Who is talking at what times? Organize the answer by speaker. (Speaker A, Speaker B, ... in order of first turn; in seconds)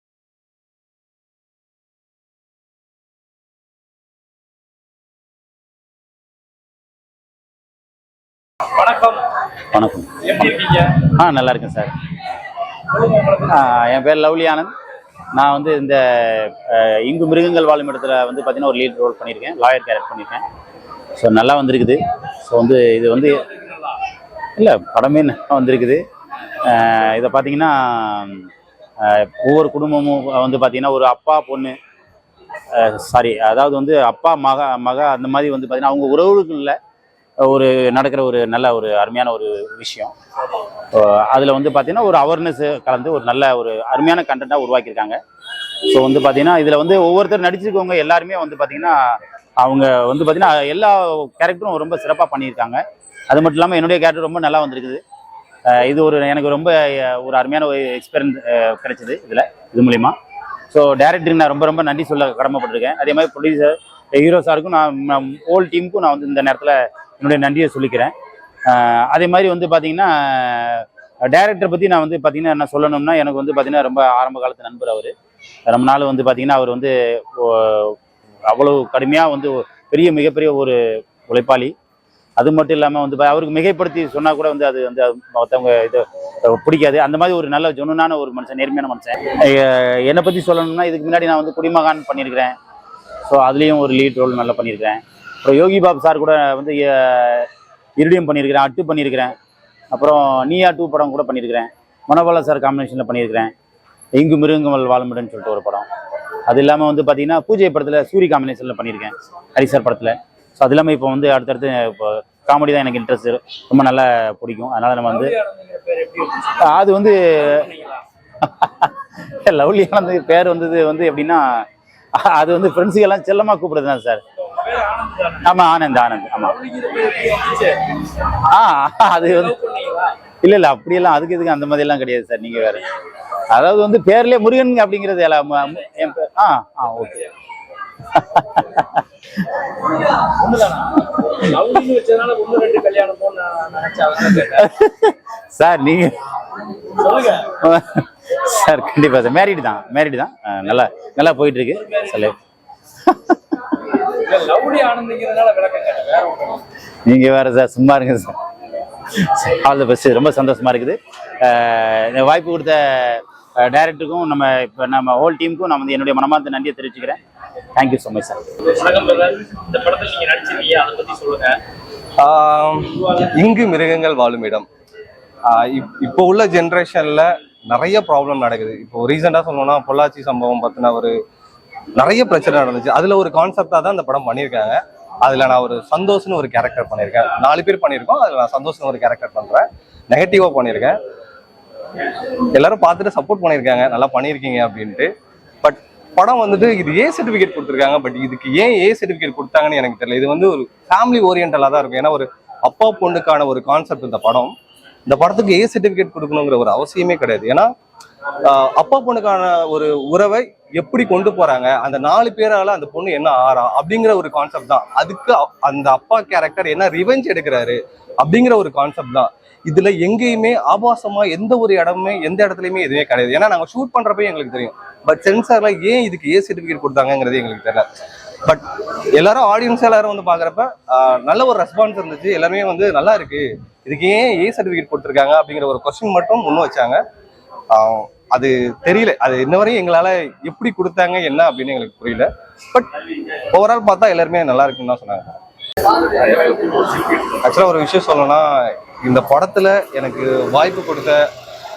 Speaker A: 8.8-9.2, 10.3-11.0, 13.0-13.4, 115.1-116.6, 117.5-118.0, 124.6-125.4, 126.5-127.9, 129.2-130.2, 140.1-144.7, 147.0-147.5, 154.1-156.6, 168.7-171.6
Speaker B: 9.7-10.2, 11.0-11.9, 13.4-14.7, 15.3-20.4, 21.2-23.5, 24.6-26.0, 26.6-28.5, 29.0-31.8, 32.7-36.8, 37.4-40.1, 40.9-45.2, 45.9-55.0, 55.7-60.1, 60.7-68.1, 68.7-75.1, 75.7-78.0, 78.5-81.7, 82.4-92.6, 93.3-99.3, 99.9-103.5, 104.2-105.9, 106.5-115.3, 116.6-117.6, 118.4-124.2, 125.4-126.6, 128.5-129.6, 130.4-132.8, 133.5-137.3, 138.1-139.0, 144.5-146.2, 147.5-152.3, 153.1-153.6, 157.1-158.4, 159.2-167.2, 167.8-168.4
Speaker C: 172.2-174.7, 175.5-181.1, 182.0-191.0, 192.5-195.1, 195.6-204.5, 205.1-207.7, 208.4-227.8, 228.4-237.0, 237.7-242.9, 243.5-245.4, 246.1-251.2